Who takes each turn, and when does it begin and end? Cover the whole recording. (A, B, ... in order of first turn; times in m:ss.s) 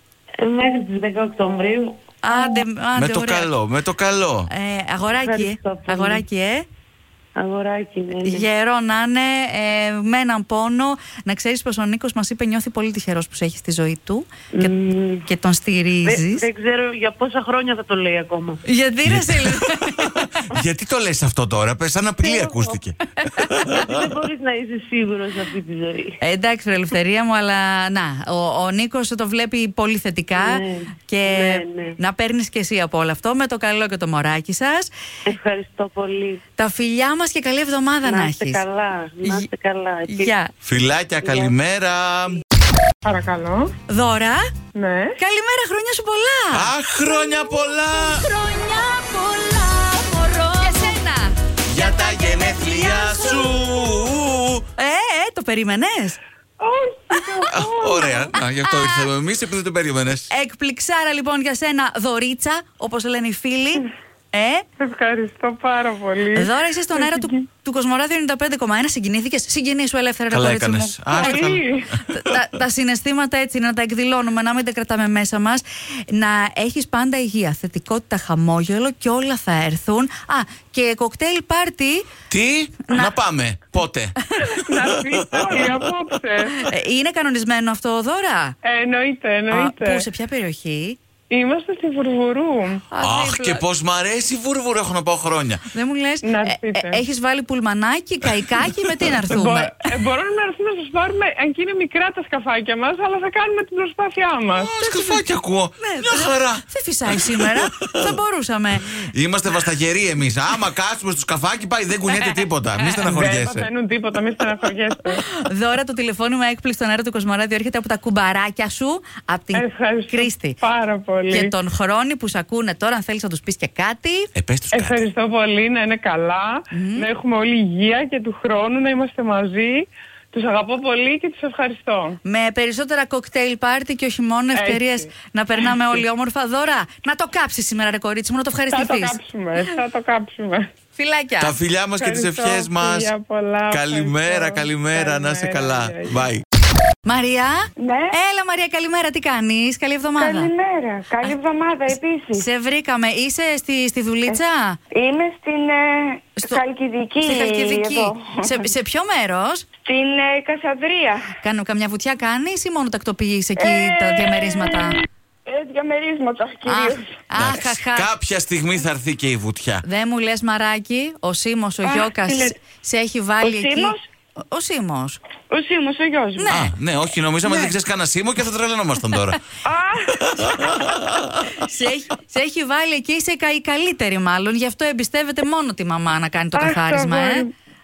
0:00.4-0:02.1 A
0:02.2-0:03.5 B
0:03.0-0:04.5 C
0:04.5-0:06.6 B
0:05.1-0:06.2 A
0:07.4-0:08.4 A
0:08.2-0:14.7 B
0:14.5-0:15.3 A
0:15.2-0:16.5 B
0:16.0-0:18.6 A
0:18.6-0:20.2 B
0:19.0-0:24.0 C
0:22.2-0:22.7 A
0:23.9-0:26.2 A
0:26.2-0:34.9 B
0:30.3-0:32.0 A
0:35.3-0:36.4 A
0:36.6-0:38.6 B
0:38.0-0:40.3 A
0:40.0-0:40.5 B
0:40.6-0:42.4 C
0:41.2-0:41.5 A
0:43.0-0:43.7 D
0:43.9-0:44.5 B
0:44.7-0:45.2 D
0:45.2-0:46.7 B
0:46.5-0:48.3 C
0:48.2-0:54.0 B
0:51.6-0:54.6 C
0:54.8-0:56.2 B
0:56.6-0:58.3 D
0:57.5-1:00.3 C
0:58.6-0:59.1 B
1:00.3-1:04.6 B
1:04.8-1:07.3 D
1:06.3-1:11.4 B
1:10.3-1:12.4 C
1:11.1-1:11.8 D
1:12.1-1:22.0 B
1:22.3-1:24.1 C
1:22.9-1:23.1 B
1:24.6-1:26.6 D
1:24.8-1:25.7 C
1:26.6-1:28.5 B
1:28.6-1:30.0 D
1:29.5-1:31.0 B
1:31.3-1:32.8 D
1:32.9-1:33.6 B
1:33.0-1:35.6 C
1:35.7-1:39.7 B
1:36.2-1:37.0 D
1:38.2-1:39.2 C
1:39.3-1:44.7 D
1:44.5-1:48.2 C
1:44.8-1:45.2 B
1:45.8-1:49.0 B
1:49.0-1:53.7 C
1:52.1-1:53.0 B
1:53.1-1:55.2 D
1:55.2-2:00.6 B
1:59.5-2:01.5 D
2:01.3-2:04.3 B
2:04.3-2:05.0 C
2:04.7-2:12.2 D
2:06.7-2:07.1 B
2:12.2-2:19.2 B
2:14.5-2:15.1 D
2:18.7-2:20.7 D
2:20.9-2:21.5 B
2:21.4-2:23.1 C
2:22.0-2:26.2 D
2:23.7-2:26.4 C
2:27.0-2:30.5 B
2:27.8-2:28.2 E
2:30.2-2:32.5 E
2:32.3-2:34.8 B
2:34.9-2:38.6 E
2:37.2-2:39.6 B
2:39.8-2:41.3 E
2:41.4-2:45.0 B
2:43.6-2:44.9 E
2:45.5-2:47.2 E
2:46.6-2:48.1 B
2:47.4-2:49.8 C
2:49.8-2:55.2 B
2:51.8-2:52.6 E
2:53.4-2:54.0 E
2:55.5-2:56.6 E
2:56.4-2:56.7 B
2:56.5-2:59.4 C
2:59.6-3:00.7 E
3:00.3-3:01.3 C
3:01.6-3:07.4 B
3:06.5-3:07.5 E